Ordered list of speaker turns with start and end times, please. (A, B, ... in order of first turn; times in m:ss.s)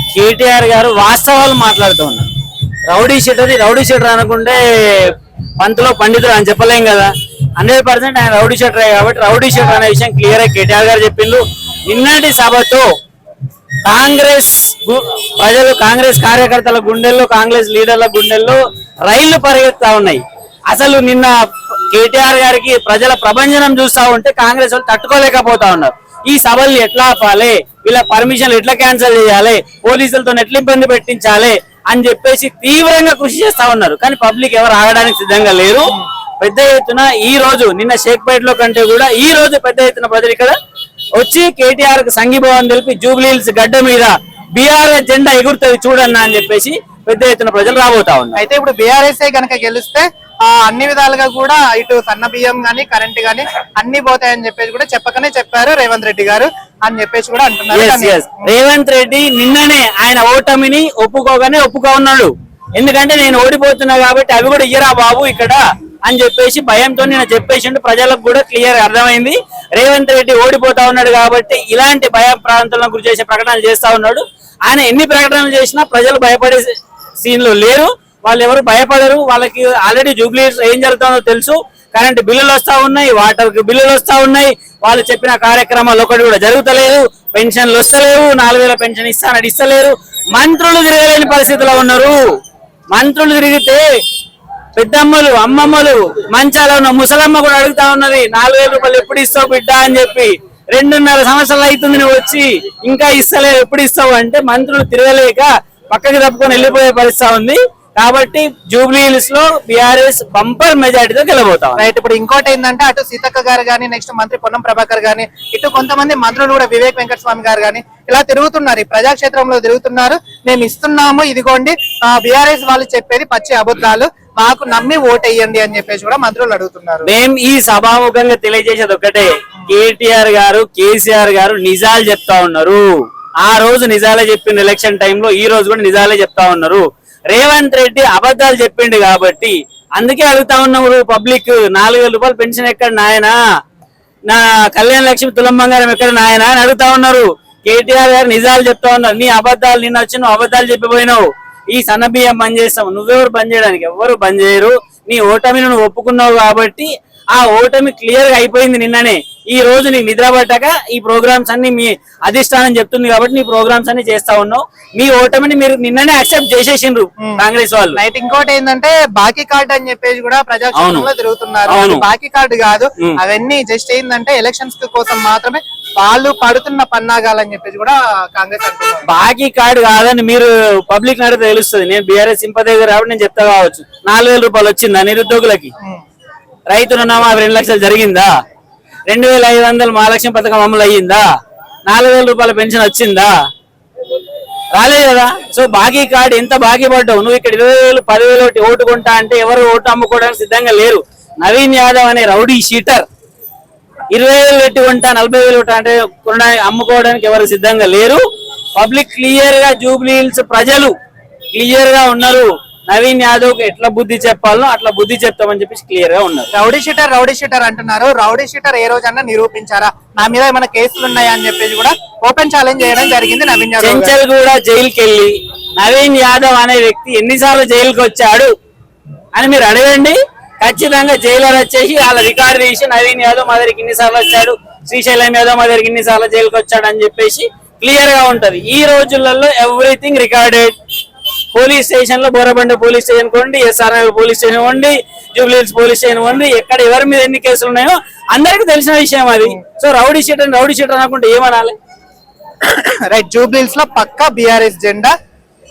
0:00.1-0:02.2 A
0:02.9-0:12.9 A
0:13.8-0:21.3 A
0:21.9-0:40.5 A
0:41.2-0:48.4 A
0:48.4-0:58.5 B
0:57.7-1:32.2 A
1:32.9-1:33.8 A
1:34.8-1:51.9 A
1:51.8-2:07.1 B
2:07.0-2:12.8 A
2:13.4-2:23.3 A
2:24.3-2:48.0 A
2:47.9-2:59.0 B
2:50.8-2:51.1 A
2:51.7-2:52.0 A
2:59.1-3:05.7 A
3:06.7-3:08.3 A
3:09.1-3:11.2 A
3:11.9-3:13.3 A
3:14.8-3:23.0 A
3:24.1-3:28.2 A
3:28.8-3:30.9 A
3:31.5-3:36.5 A
3:36.5-3:44.1 B
3:43.8-3:48.5 A
3:49.3-4:00.7 A
4:01.5-4:11.8 A
4:12.7-4:15.1 B